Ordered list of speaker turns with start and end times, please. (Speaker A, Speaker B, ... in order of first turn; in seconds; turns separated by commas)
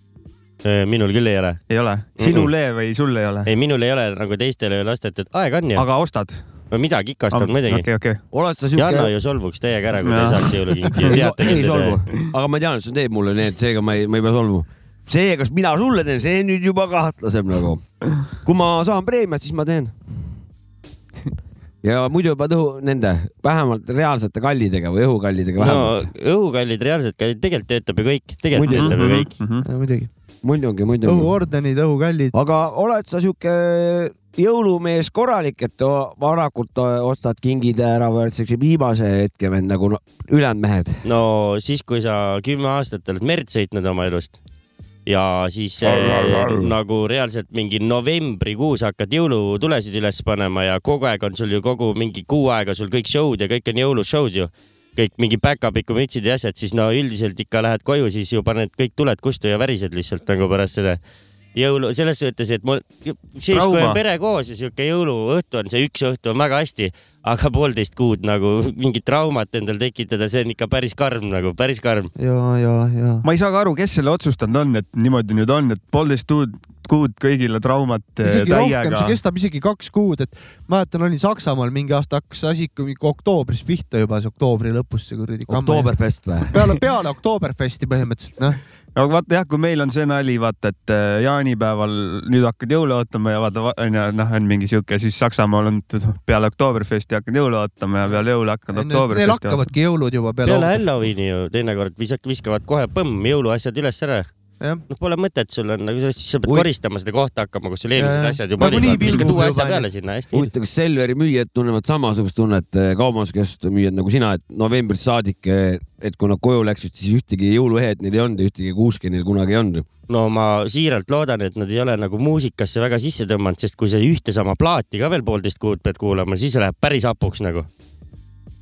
Speaker A: 0.6-1.6, Speaker B: 1.7-3.5, Speaker A: 2.2-2.5, Speaker A: 3.5-5.8, Speaker B: 5.8-6.4, Speaker A: 6.7-7.9, Speaker B: 7.3-8.2, Speaker C: 8.3-9.1, Speaker A: 8.8-12.0, Speaker B: 10.0-11.2, Speaker C: 11.1-17.8, Speaker C: 18.4-19.9, Speaker C: 21.8-26.1, Speaker A: 25.6-29.3, Speaker C: 28.6-29.0, Speaker B: 28.6-29.7, Speaker D: 29.6-30.1, Speaker C: 30.4-31.3, Speaker D: 31.0-32.3, Speaker C: 32.3-41.0, Speaker A: 41.0-44.4, Speaker A: 45.1-61.0, Speaker C: 45.9-46.7, Speaker A: 61.5-72.1, Speaker B: 63.5-64.0, Speaker D: 72.2-73.3, Speaker B: 73.2-79.2, Speaker D: 78.2-86.0, Speaker C: 85.5-86.6, Speaker D: 86.5-88.6, Speaker B: 89.0-99.6, Speaker D: 98.7-100.8, Speaker A: 100.5-104.3, Speaker A: 104.9-110.5, Speaker D: 108.0-109.9, Speaker C: 110.3-119.9, Speaker A: 120.1-127.7